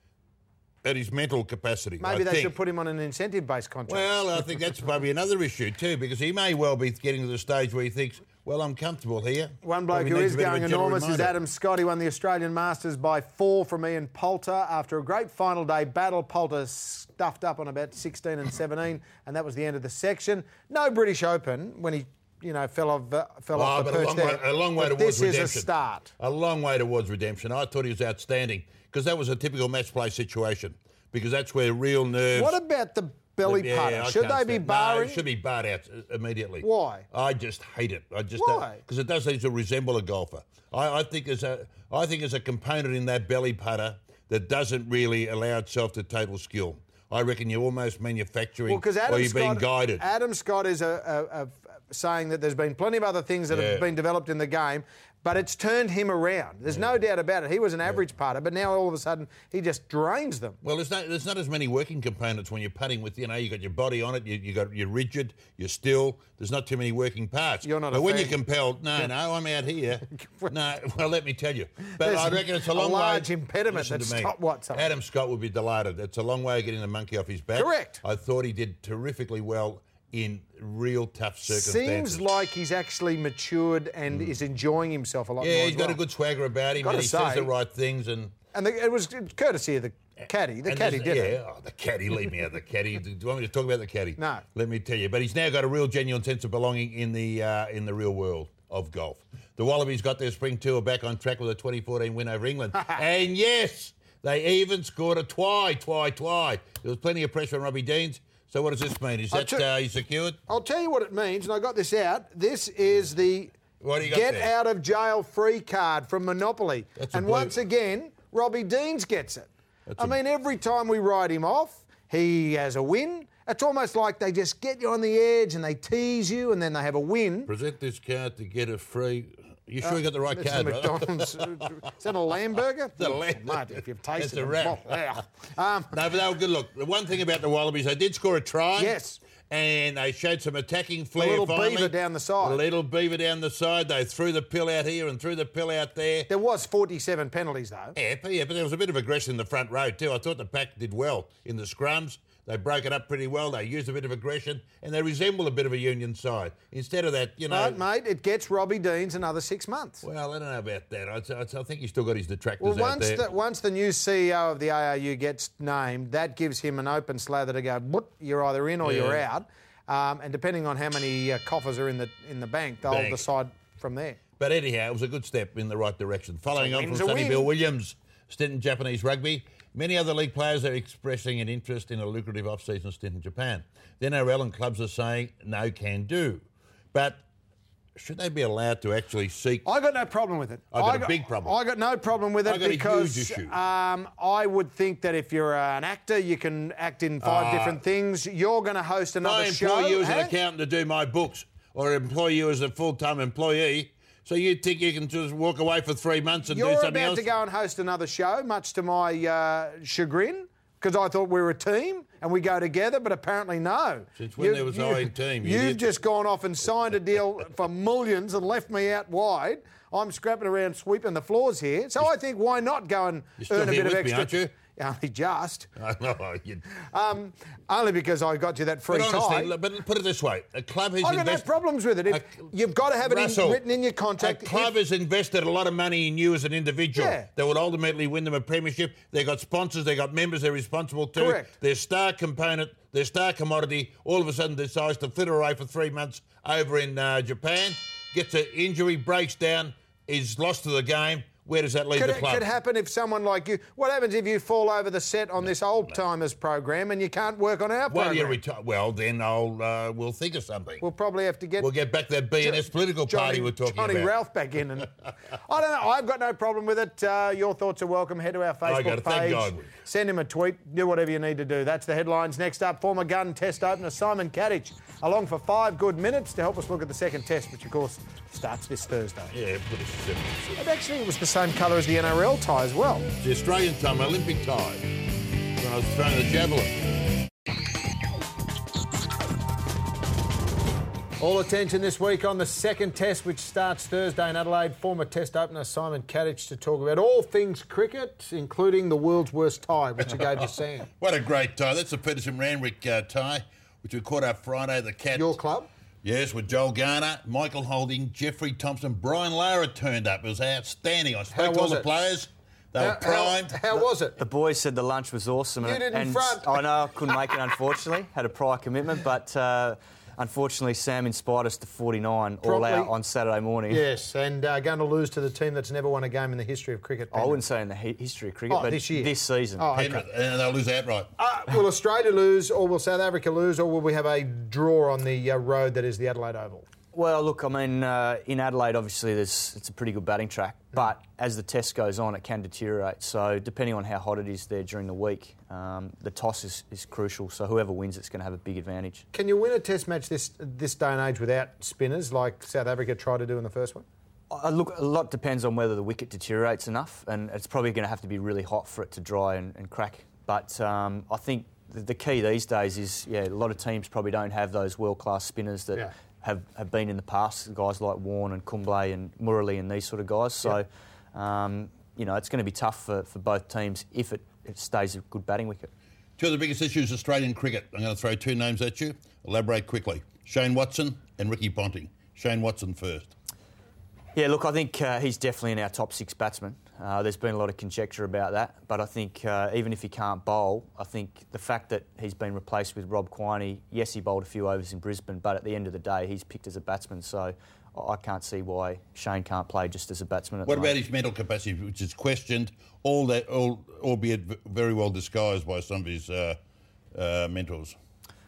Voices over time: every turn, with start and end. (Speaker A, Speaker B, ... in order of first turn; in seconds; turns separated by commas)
Speaker A: 0.8-2.5, Speaker B: 2.0-4.2, Speaker A: 3.9-11.3, Speaker B: 9.6-26.1, Speaker A: 23.6-25.7, Speaker A: 26.2-32.6, Speaker B: 32.3-35.2, Speaker A: 33.4-50.0, Speaker B: 36.6-37.1, Speaker B: 38.4-38.8, Speaker B: 48.7-60.6, Speaker A: 53.5-53.9, Speaker A: 60.6-82.2, Speaker B: 67.6-68.4, Speaker B: 72.0-74.9, Speaker B: 77.6-78.0, Speaker B: 81.5-86.0, Speaker A: 85.4-88.3, Speaker B: 86.8-87.5, Speaker B: 88.5-91.4, Speaker A: 90.7-110.4, Speaker B: 94.2-94.4, Speaker B: 109.3-109.6, Speaker B: 110.5-127.5, Speaker A: 113.8-114.5, Speaker A: 117.0-117.6, Speaker A: 119.9-120.2, Speaker A: 127.5-131.7, Speaker B: 129.8-135.9, Speaker A: 133.0-135.2, Speaker A: 135.9-139.0, Speaker B: 138.8-139.2, Speaker A: 139.5-146.3, Speaker B: 141.2-142.6, Speaker B: 146.3-148.0, Speaker A: 148.0-157.8, Speaker B: 157.5-160.0, Speaker A: 160.0-163.3, Speaker B: 162.6-174.2, Speaker A: 168.8-169.2, Speaker A: 172.9-173.2, Speaker A: 174.4-187.2, Speaker B: 176.6-177.5, Speaker A: 188.0-189.7, Speaker B: 189.7-200.3, Speaker A: 190.7-191.6, Speaker A: 192.4-193.6, Speaker A: 197.2-197.8, Speaker A: 199.2-207.3, Speaker B: 206.5-225.7, Speaker A: 214.2-215.9, Speaker A: 223.4-224.5, Speaker A: 225.8-226.6, Speaker B: 226.8-229.5, Speaker A: 228.9-231.5, Speaker B: 231.0-234.7, Speaker A: 232.1-232.5, Speaker A: 233.0-233.6, Speaker A: 234.2-252.4, Speaker B: 236.9-237.3, Speaker B: 241.2-241.5, Speaker B: 251.9-258.4, Speaker A: 257.9-260.8, Speaker B: 260.8-261.7, Speaker A: 261.6-264.1, Speaker B: 262.4-279.3, Speaker A: 268.6-269.7, Speaker A: 279.3-280.6, Speaker B: 280.6-283.1, Speaker A: 283.2-284.9, Speaker A: 285.6-286.9, Speaker B: 291.2-300.9, Speaker A: 301.0-305.4, Speaker B: 305.1-305.7, Speaker A: 306.0-313.6, Speaker B: 311.3-311.9, Speaker B: 312.8-314.2, Speaker C: 314.2-323.9, Speaker B: 315.6-317.1, Speaker B: 322.4-322.9, Speaker B: 323.7-327.4, Speaker C: 327.1-329.7, Speaker B: 328.5-330.0, Speaker A: 329.7-331.1, Speaker B: 331.2-336.7, Speaker C: 336.9-349.0, Speaker B: 349.1-353.9, Speaker C: 354.3-375.7, Speaker A: 376.2-383.1, Speaker C: 384.1-400.8, Speaker A: 400.5-406.4, Speaker A: 406.9-407.8